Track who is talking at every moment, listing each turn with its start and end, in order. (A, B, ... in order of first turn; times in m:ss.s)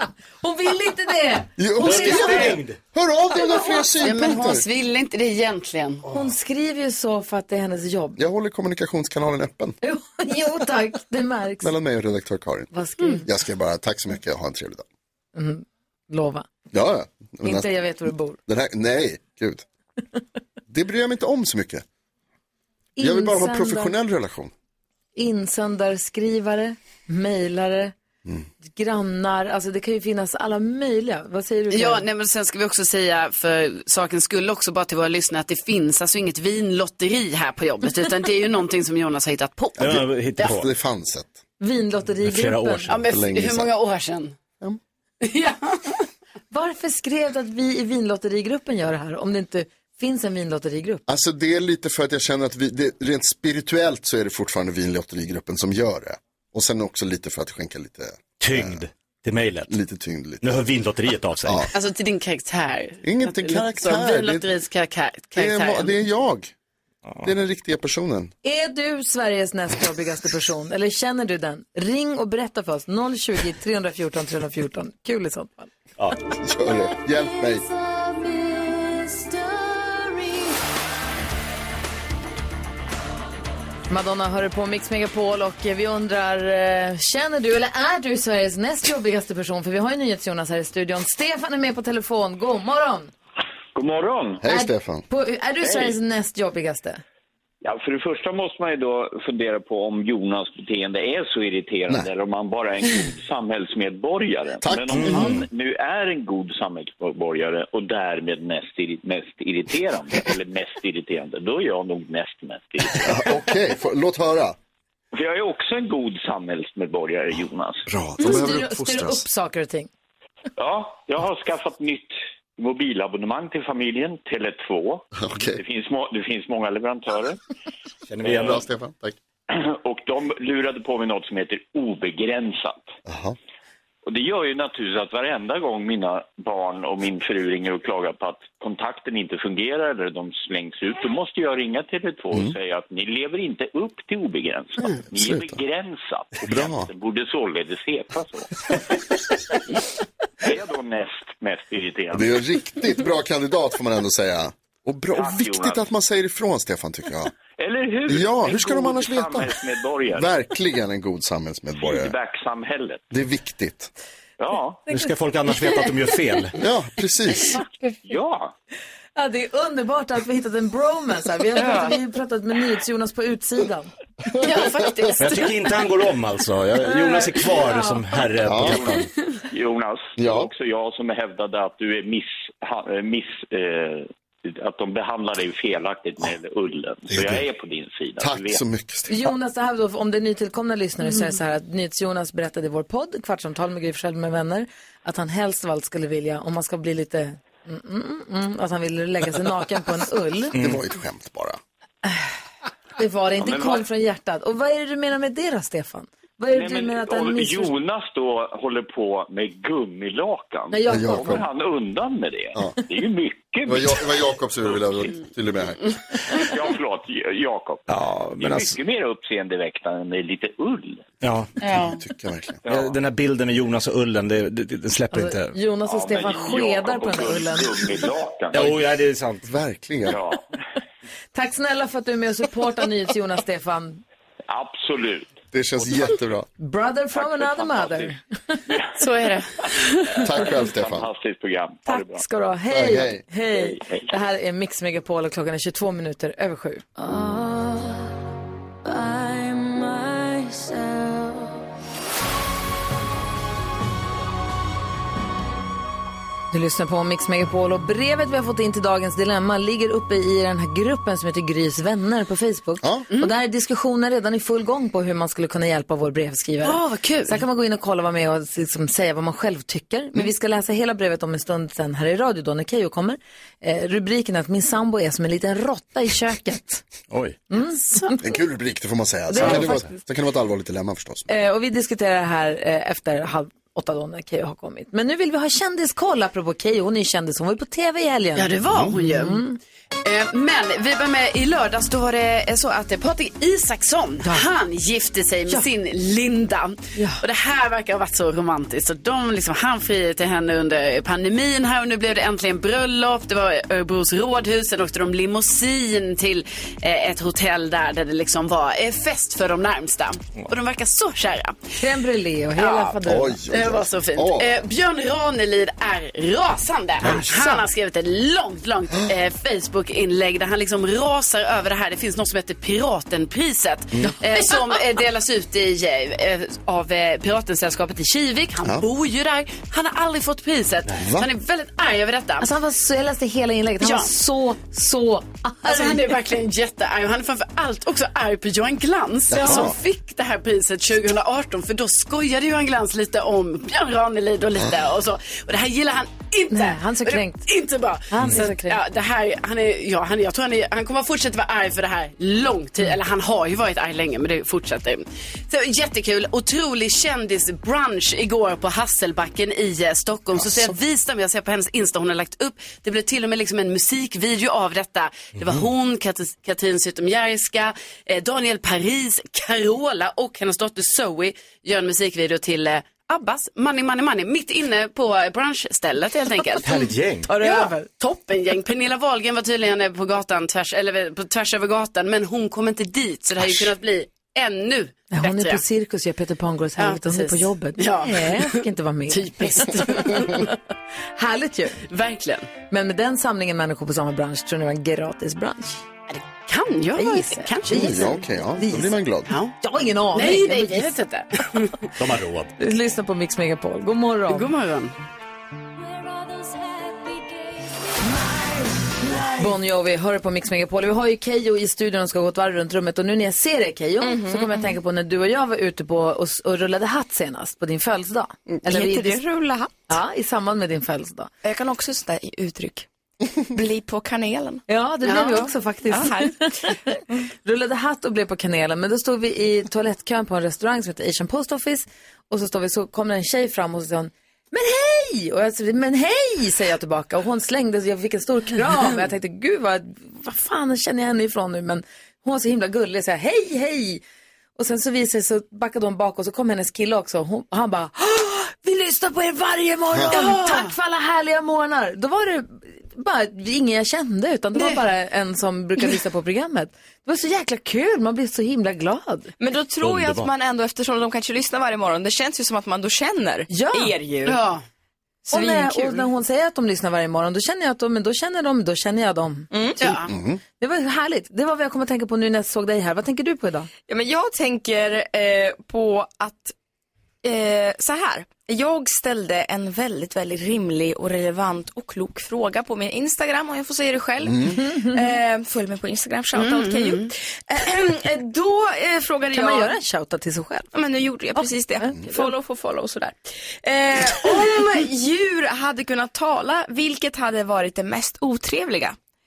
0:00.4-0:02.5 A
0:01.6-0:04.6 B
0:01.8-0:02.8 C
0:03.6-0:03.9 A
0:04.0-0:06.0 D
0:06.1-0:08.2 A
0:08.2-0:09.7 B
0:09.8-0:11.7 A
0:11.6-0:12.7 B
0:12.7-0:13.3 A
0:13.2-0:14.8 B
0:15.3-0:16.5 A
0:16.7-0:17.7 B
0:17.4-0:18.4 A
0:18.5-0:19.6 B
0:20.7-0:21.8 B
0:23.0-0:23.9 A
0:23.0-0:24.5 B
0:25.1-0:27.9 A
0:28.6-0:32.0 A
0:31.7-0:40.6 D
0:39.8-0:40.7 C
0:39.8-0:41.4 B
0:41.6-0:42.9 A
0:42.2-0:43.0 C
0:42.9-0:44.3 D
0:43.1-0:43.7 B
0:45.2-0:46.1 D
0:46.5-0:51.0 A
0:51.1-0:58.8 B
0:58.4-0:59.7 C
0:59.7-1:00.6 B
1:00.4-1:01.7 C
1:01.4-1:01.7 B
1:01.7-1:05.9 D
1:03.0-1:04.4 B
1:05.4-1:06.5 B
1:07.0-1:07.3 C
1:07.2-1:08.3 B
1:08.4-1:15.7 A
1:16.4-1:17.6 B
1:23.9-1:33.1 A
1:33.7-1:34.4 E
1:34.4-1:35.0 B
1:34.5-1:37.0 A
1:35.6-1:35.9 E
1:37.6-1:53.3 E
1:44.6-1:45.3 B
1:44.9-1:45.4 C
1:53.0-1:54.6 B
1:55.1-1:57.8 E
1:57.9-1:59.2 B
1:58.2-1:59.9 A
2:00.6-2:07.4 E
2:05.2-2:05.6 B
2:08.1-2:08.6 C
2:08.2-2:09.2 B
2:09.5-2:12.9 E
2:13.1-2:13.4 B
2:14.0-2:28.5 E
2:25.1-2:25.6 B
2:26.4-2:26.9 B
2:30.4-2:32.3 E
2:32.1-2:37.3 B
2:35.1-2:35.8 E
2:37.6-2:40.3 E
2:38.1-2:42.1 B
2:41.8-2:43.0 E
2:43.1-2:43.9 B
2:44.4-2:44.8 E
2:44.9-2:46.6 C
2:46.6-2:47.6 B
2:48.0-2:48.5 E
2:49.2-2:53.9 A
2:51.5-2:52.0 D
2:54.4-2:55.9 D
2:55.2-2:59.1 C
2:57.0-2:57.3 D
2:57.5-2:58.0 A
2:58.4-2:59.0 B
2:59.4-3:08.6 E
3:00.2-3:00.5 B
3:07.1-3:07.4 B
3:08.2-3:09.3 B
3:09.1-3:20.5 A
3:20.5-3:20.8 C
3:20.6-3:21.6 B
3:22.0-3:22.3 A
3:23.0-3:27.7 A
3:23.4-3:23.8 E
3:26.5-3:34.3 E
3:30.7-3:31.4 A
3:30.9-3:31.4 B
3:33.6-3:35.8 B
3:36.3-3:37.8 E
3:37.9-3:38.8 C
3:38.4-3:41.1 E
3:41.2-3:41.5 C
3:41.6-3:42.0 D
3:41.9-3:42.6 B
3:42.6-3:43.0 E
3:42.7-3:45.5 C
3:45.1-3:48.0 A
3:45.8-3:48.8 E
3:48.5-3:49.4 C
3:49.4-3:50.2 B
3:50.0-3:50.4 E
3:51.3-3:54.0 A
3:54.5-3:55.4 E
3:55.5-3:56.5 B
3:56.6-3:58.6 A
3:57.1-3:58.1 E
3:59.0-4:00.5 D
4:00.2-4:01.1 B
4:00.6-4:02.2 E
4:01.9-4:07.0 A
4:02.7-4:03.2 B
4:03.5-4:04.2 E
4:16.5-4:36.8 A
4:26.6-4:27.4 D
4:37.1-4:37.4 C
4:37.5-4:38.2 A
4:38.2-4:41.3 B
4:39.3-4:40.0 A
4:39.5-4:39.8 C
4:41.3-4:49.6 A
4:48.4-4:49.4 D
4:48.7-4:48.9 B
4:50.0-5:11.8 D
4:56.9-4:57.2 A
5:11.8-5:13.4 A
5:12.6-5:13.0 D
5:13.0-5:14.6 B
5:13.5-5:32.5 D
5:17.0-5:17.3 C
5:17.1-5:17.6 A
5:31.0-5:31.3 B
5:32.4-5:36.1 A
5:33.8-5:34.1 D
5:35.6-6:25.6 D
5:39.3-5:39.8 B
5:39.4-5:39.7 A
5:46.5-5:47.4 A
5:48.1-5:48.8 A
6:00.3-6:00.7 B
6:16.6-6:17.3 C
6:17.3-6:17.8 A
6:25.1-6:30.5 A
6:26.8-6:28.6 D
6:29.1-6:30.5 D
6:31.2-6:31.8 A
6:31.9-6:32.5 D
6:32.7-6:35.8 A
6:36.1-6:38.2 D
6:37.0-6:39.0 A
6:37.7-6:39.3 B
6:39.3-6:39.5 D
6:39.6-6:40.9 A
6:40.1-6:41.9 D
6:42.0-6:42.5 C
6:42.6-6:44.5 A
6:44.3-6:44.9 D
6:49.3-6:59.2 A
6:54.0-6:54.8 F
6:58.5-7:00.0 F
6:59.9-7:01.3 A
7:01.4-7:02.9 F
7:03.5-7:07.2 F
7:04.7-7:24.0 A
7:05.1-7:05.4 D
7:24.6-7:39.3 A
7:30.1-7:30.7 D
7:39.4-7:44.4 F
7:39.8-7:40.3 C
7:43.5-7:43.9 A
7:44.2-7:44.6 D
7:45.2-7:46.1 F
7:45.3-7:50.0 A
7:49.5-7:49.9 F
7:49.8-7:50.1 D
7:50.1-7:50.4 B
7:50.6-7:53.7 A
7:53.9-7:56.5 F
7:57.2-8:09.7 F
8:04.3-8:04.5 B
8:04.5-8:04.9 A
8:06.4-8:07.1 D
8:09.3-8:10.7 A
8:10.7-8:19.0 F
8:11.4-8:12.3 A